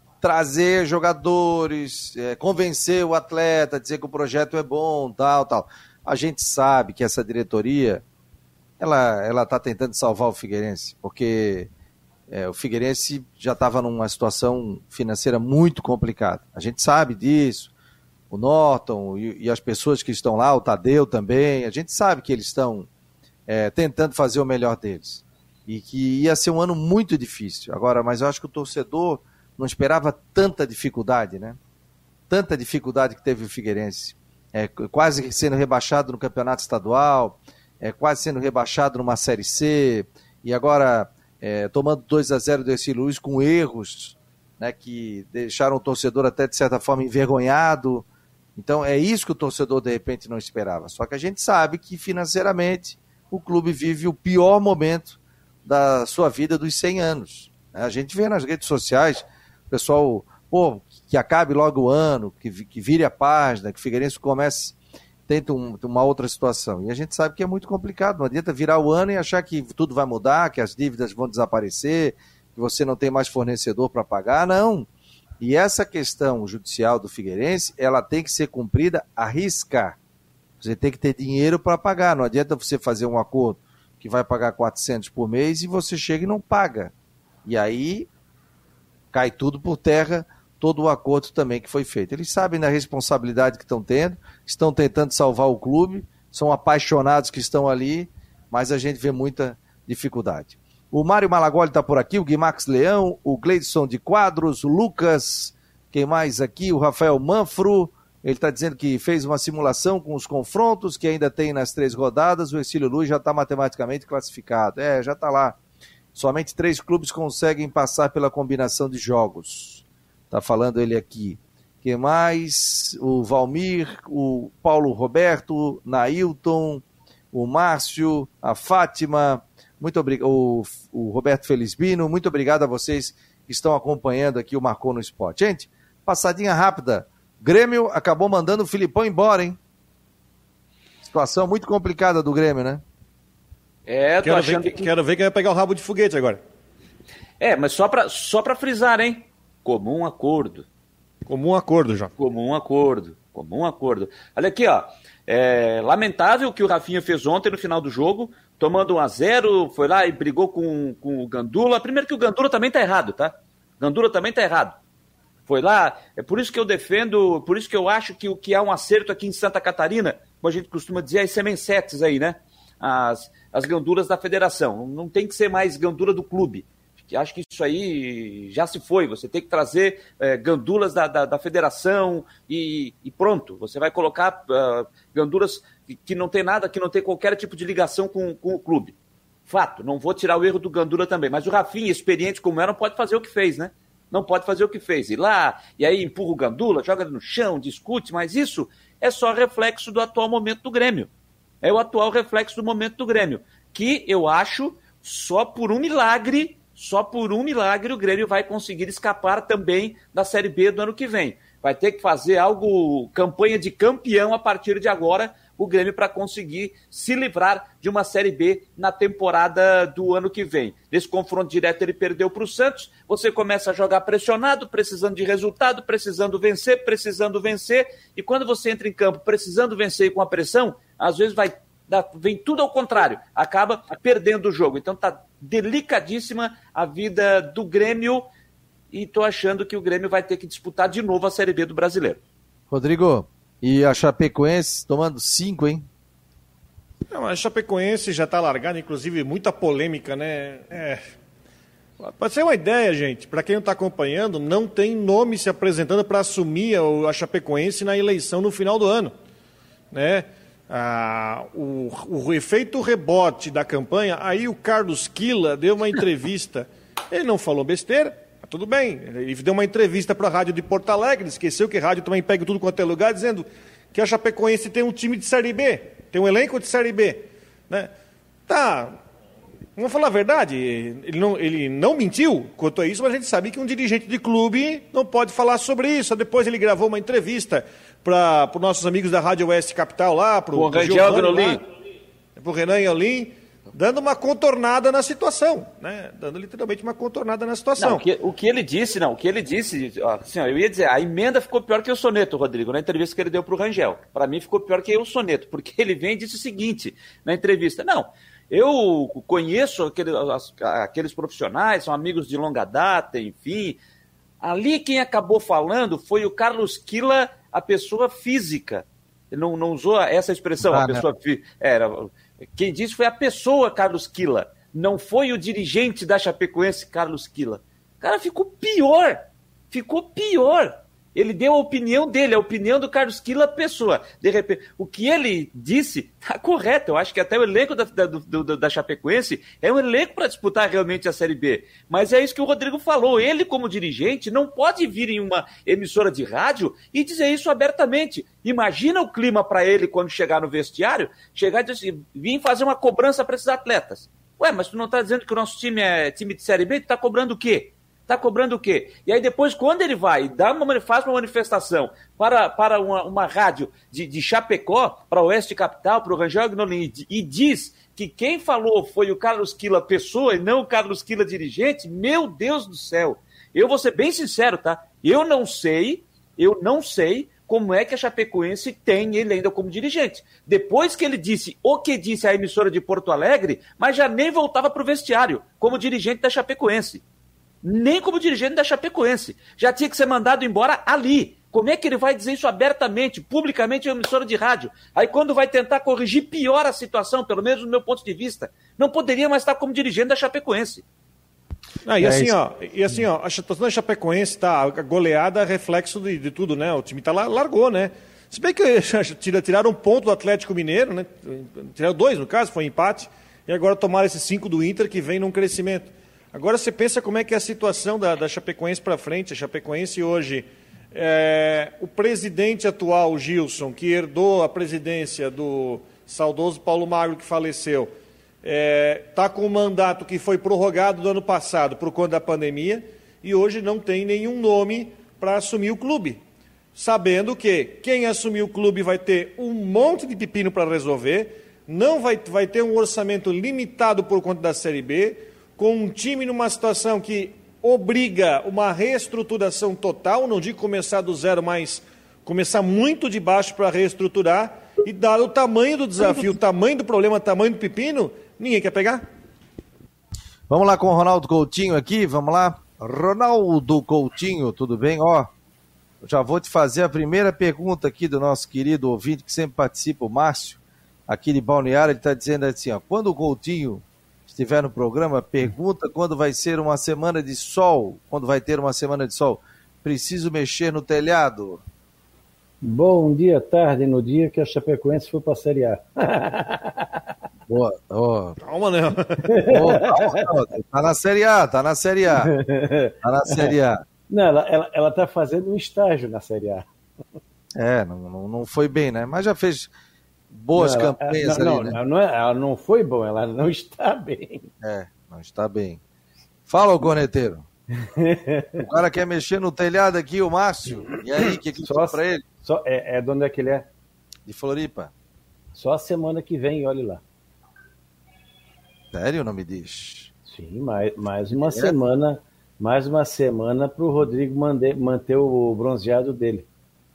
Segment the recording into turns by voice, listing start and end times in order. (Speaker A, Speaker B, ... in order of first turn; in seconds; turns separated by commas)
Speaker A: 0.2-8.0, Speaker A: 8.8-11.7, Speaker A: 12.3-17.7, Speaker A: 18.3-22.9, Speaker A: 23.5-31.6, Speaker A: 32.3-48.1, Speaker A: 48.6-64.8, Speaker A: 65.3-74.9, Speaker A: 75.4-80.0, Speaker A: 80.6-86.9, Speaker A: 87.5-88.1, Speaker A: 89.1-115.6, Speaker A: 116.2-139.6, Speaker A: 141.1-142.8, Speaker B: 143.9-144.9, Speaker C: 144.2-146.4, Speaker B: 147.4-150.7, Speaker C: 151.3-152.1, Speaker B: 152.2-164.8, Speaker B: 165.5-189.0, Speaker B: 189.5-201.1, Speaker B: 201.6-238.3, Speaker B: 238.9-242.2, Speaker A: 242.7-245.9, Speaker C: 247.1-251.0, Speaker C: 252.0-259.1, Speaker C: 259.9-277.9, Speaker C: 278.5-279.0, Speaker C: 279.8-291.6, Speaker B: 290.5-291.6, Speaker C: 292.4-298.0, Speaker B: 297.8-313.8, Speaker B: 314.4-387.0, Speaker A: 320.6-321.1, Speaker B: 387.6-400.8, Speaker C: 401.9-427.9, Speaker A: 402.0-402.3, Speaker C: 428.4-436.2, Speaker C: 436.8-459.0, Speaker A: 460.5-465.3, Speaker A: 466.0-481.6, Speaker D: 482.6-487.0, Speaker A: 487.5-488.4, Speaker C: 488.4-489.5, Speaker D: 489.3-490.3, Speaker A: 489.5-492.3, Speaker D: 492.1-493.5, Speaker A: 493.0-493.8, Speaker D: 494.1-496.7, Speaker A: 497.6-499.7, Speaker A: 500.3-501.8, Speaker D: 500.6-504.5, Speaker A: 504.6-505.8, Speaker A: 506.5-507.5, Speaker D: 507.8-508.6, Speaker A: 508.6-512.2, Speaker D: 511.6-513.7, Speaker A: 514.3-514.9, Speaker D: 515.5-517.0, Speaker A: 518.9-520.1, Speaker D: 520.3-526.5, Speaker A: 521.5-521.8